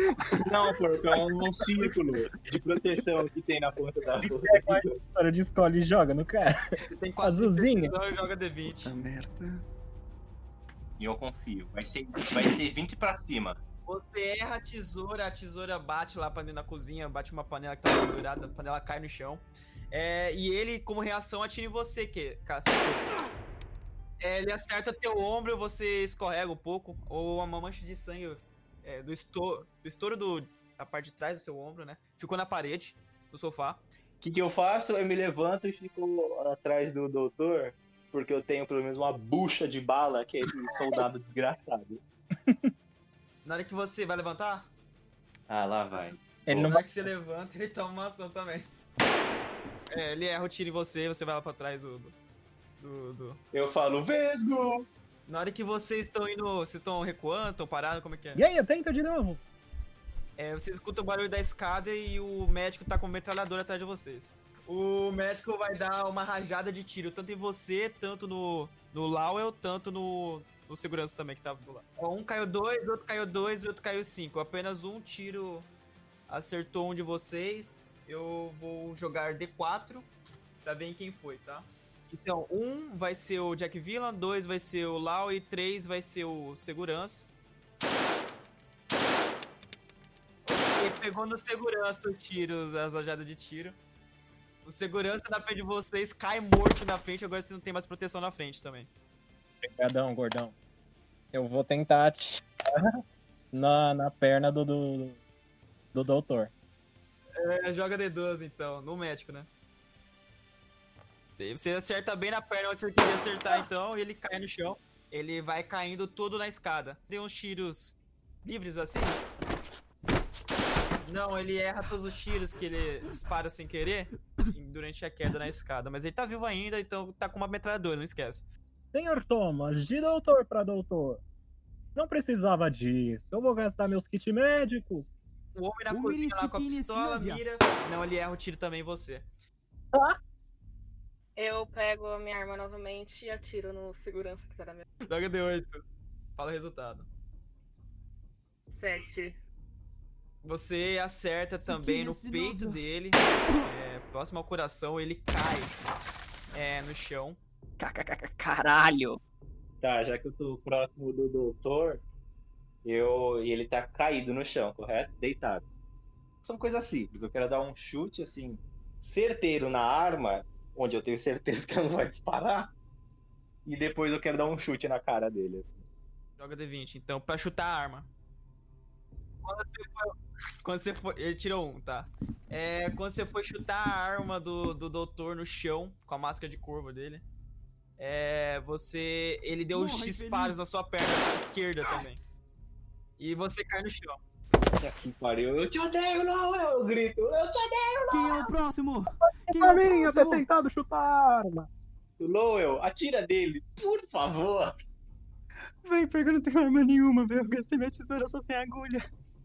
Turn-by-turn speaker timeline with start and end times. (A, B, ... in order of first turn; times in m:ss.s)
0:00.4-0:05.0 A
0:04.2-0:06.6 B
0:07.0-0:08.9 C
0:07.2-0:08.0 B
0:08.8-0:09.6 D
0:11.0-0:13.6 A
0:13.9-0:23.3 C
0:24.2-0:33.8 C
0:34.2-0:42.0 A
0:42.4-0:42.7 B
0:43.4-0:44.7 C
0:45.5-0:46.7 A
0:46.5-0:46.8 B
0:46.5-0:48.7 C
0:49.9-0:52.2 C
0:52.8-0:53.4 C
0:53.5-0:54.9 A
0:55.3-0:58.4 C
0:58.3-0:59.4 B
1:00.4-1:15.7 C
1:16.3-1:20.1 C
1:20.6-1:27.3 C
1:30.4-1:33.8 C
1:34.6-1:38.9 C
1:39.6-1:40.5 B
1:41.3-1:43.0 B
1:43.5-1:45.2 B
1:45.9-1:46.5 B
1:47.4-1:49.5 C
1:51.4-1:59.2 C
2:01.0-2:08.5 C
2:08.9-2:11.2 B
2:11.9-2:15.1 B
2:15.5-2:19.2 C
2:15.9-2:17.4 E
2:21.4-2:24.8 F
2:25.0-2:25.8 C
2:26.4-2:27.1 C
2:28.7-2:29.4 F
2:30.4-2:35.7 C
2:31.6-2:32.8 E
2:36.5-2:37.4 C
2:37.8-2:39.2 D
2:39.8-2:42.0 A
2:42.8-2:45.6 A
2:46.4-2:52.7 A
2:53.6-2:55.8 A
2:56.4-2:58.1 C
2:59.4-3:07.2 C
3:08.0-3:12.2 C
3:09.7-3:10.6 E
3:13.2-3:14.2 C
3:14.8-3:18.5 A
3:18.1-3:20.4 E
3:19.5-3:21.7 B
3:22.2-3:24.8 A
3:25.8-3:29.1 D